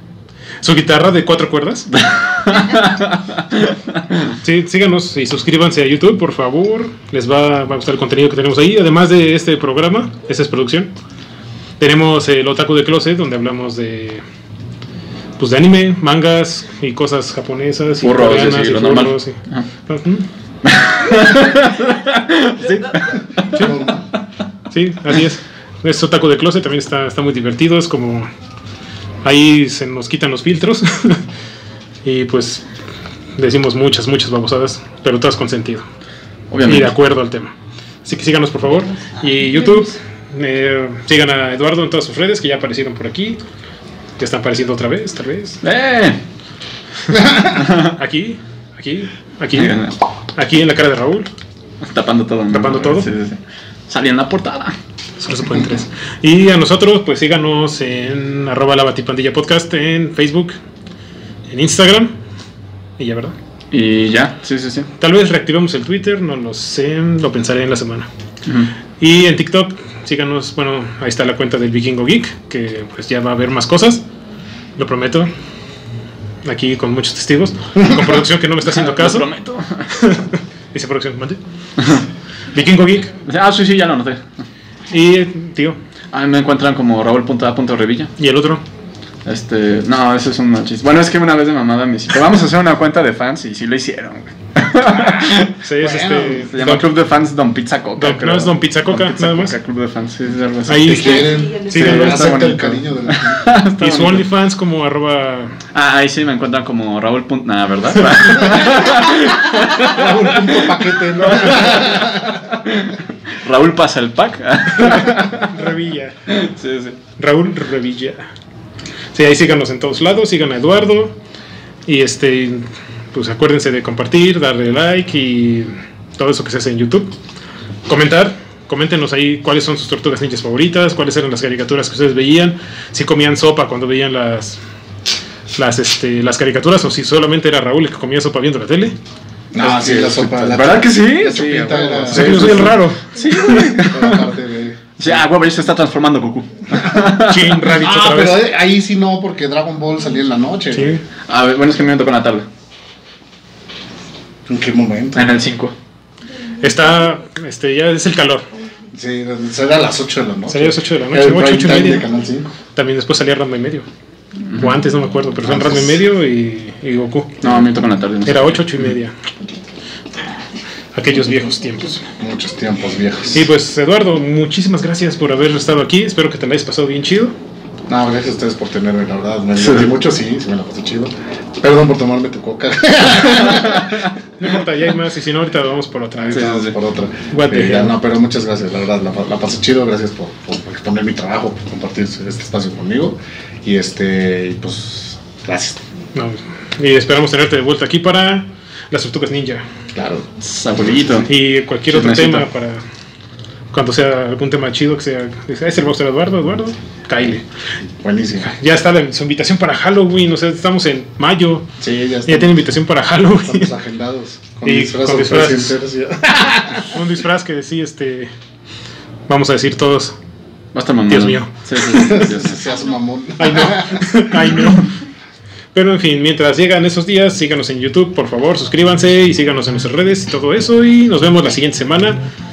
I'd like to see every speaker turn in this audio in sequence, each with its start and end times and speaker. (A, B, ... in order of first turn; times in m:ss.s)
0:00.6-0:01.9 A
0:02.0-0:04.2 B
0:04.4-0:10.9 A
0:11.8-0:14.2 A
0:15.4-0:20.3 A
0:18.0-0:19.6 B
0:20.6-0:23.6 B
0:23.5-0:23.9 A
0:23.5-0:24.0 C
0:24.7-0:28.3 A
0:29.2-0:31.2 A
0:32.0-0:32.6 A
0:33.4-0:35.8 A
0:36.5-0:36.9 B
0:36.6-0:37.5 A
0:38.0-0:43.4 A
0:44.2-0:45.6 A
0:45.6-0:46.2 B
0:47.1-0:47.5 C
0:47.5-0:48.0 B
0:47.8-0:49.8 A
0:49.5-0:49.9 B
0:50.3-0:51.3 A
0:51.8-0:54.7 B
0:52.5-0:53.1 A
0:55.2-1:00.5 A
1:01.5-1:02.1 A
1:03.0-1:03.3 A
1:03.7-1:04.9 B
1:05.0-1:08.1 A
1:09.0-1:14.0 A
1:14.8-1:15.3 A
1:16.4-1:19.2 A
1:18.6-1:19.9 B
1:20.0-1:21.4 A
1:22.5-1:23.1 A
1:23.2-1:24.4 B
1:24.9-1:25.8 A
1:26.1-1:28.1 B
1:28.2-1:28.6 A
1:29.2-1:44.2 B
1:35.6-1:36.9 A
1:35.8-1:36.4 C
1:38.0-1:39.5 A
1:40.7-1:42.4 A
1:40.8-1:43.5 C
1:43.7-1:45.6 A
1:45.7-1:55.5 B
1:49.8-1:52.4 C
1:55.4-1:56.2 A
1:56.3-1:57.0 B
1:57.2-1:58.3 A
1:59.1-2:01.2 A
2:01.8-2:07.1 A
2:07.9-2:14.6 A
2:15.5-2:18.9 A
2:19.5-2:22.8 C
2:19.6-2:24.3 B
2:22.1-2:23.0 A
2:23.7-2:25.2 C
2:25.0-2:27.6 B
2:27.0-2:28.4 A
2:27.7-2:31.0 C
2:30.7-2:31.0 A
2:31.3-2:32.4 B
2:34.5-2:35.3 C
2:35.1-2:35.7 B
2:36.6-2:38.5 A
2:38.9-2:42.5 C
2:40.5-2:42.1 A
2:42.7-2:43.9 A
2:44.5-2:47.4 A
2:45.4-2:46.0 C
2:47.4-2:48.9 B
2:48.2-2:49.1 A
2:50.9-2:52.0 A
2:52.2-2:53.5 C
2:53.3-2:57.3 A
2:57.9-3:04.0 C
2:59.6-2:59.9 B
3:03.4-3:04.0 B
3:04.4-3:06.7 A
3:06.2-3:15.8 C
3:06.3-3:06.8 B
3:07.3-3:08.0 A
3:16.1-3:19.6 A
3:19.9-3:20.3 C
3:20.4-3:21.3 B
3:21.3-3:22.8 A
3:21.9-3:22.4 B
3:23.7-3:27.4 A
3:28.0-3:28.5 C
3:28.4-3:31.7 A
3:31.8-3:32.5 C
3:32.2-3:33.7 A
3:33.4-3:37.0 C
3:34.6-3:35.8 A
3:36.9-3:38.3 A
3:39.3-3:40.2 A
3:40.7-3:42.8 B
3:41.1-3:42.2 A
3:42.0-3:44.4 C
3:43.4-3:44.9 A
3:45.7-3:52.2 A